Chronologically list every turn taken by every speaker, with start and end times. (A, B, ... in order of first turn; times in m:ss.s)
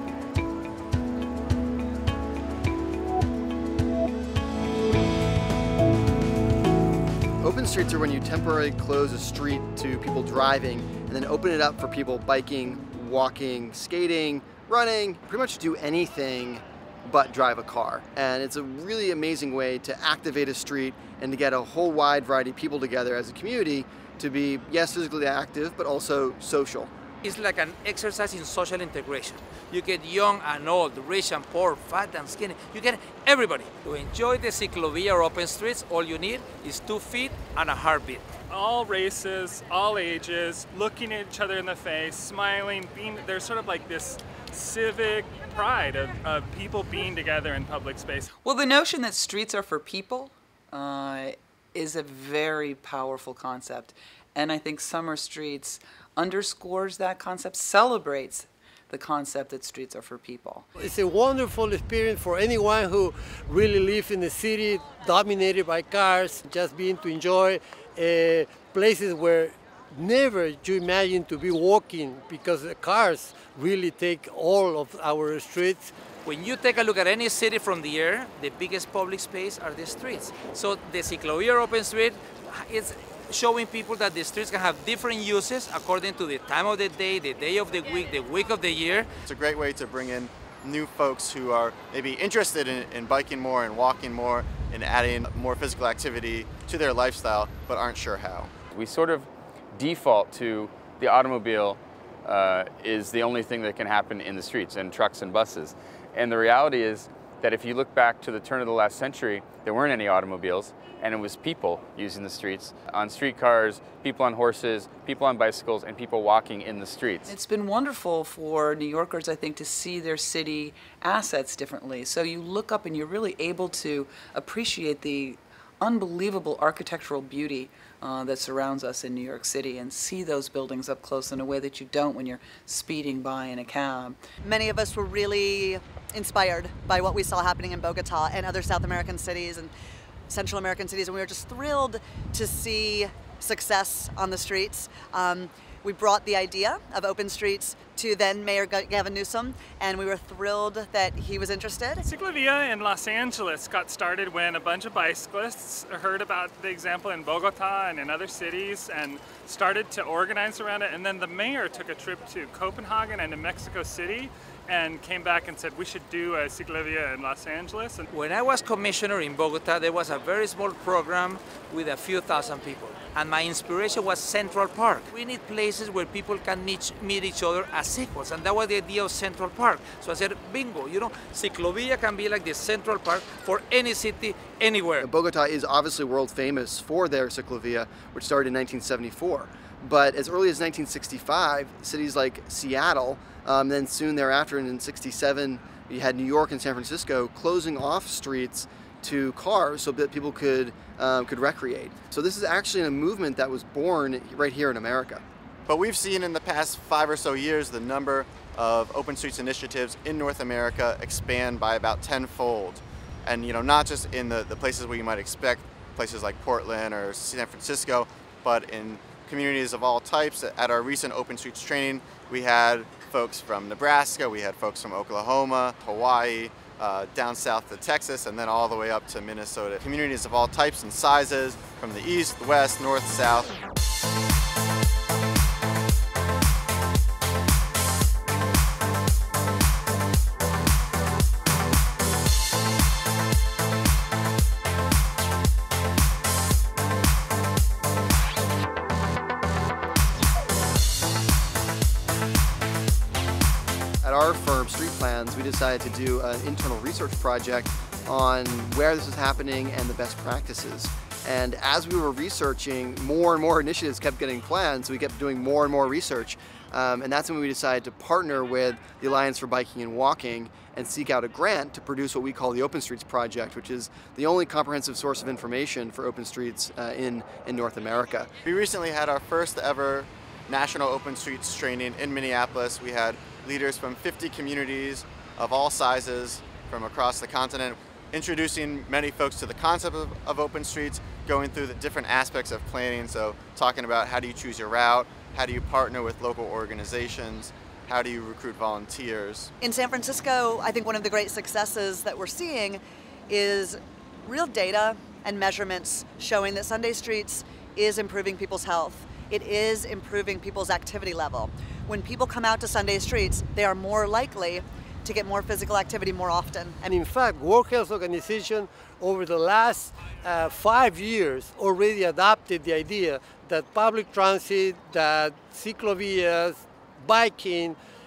0:07.4-0:26.9 A
0:27.2-0:38.3 B
0:38.5-0:48.2 C
0:48.4-1:00.7 D
1:00.8-1:15.9 E
1:16.2-1:29.1 B
1:29.3-1:38.5 F
1:38.7-1:57.3 G
1:57.2-2:14.2 D
2:14.4-2:19.7 H
2:20.3-2:32.0 H
2:32.0-2:48.1 C
2:48.1-3:05.1 B
3:05.0-3:25.2 A
3:25.7-3:53.6 F
4:14.0-4:38.3 A
4:38.4-4:59.5 F
4:59.6-5:16.8 H
5:16.8-5:27.8 E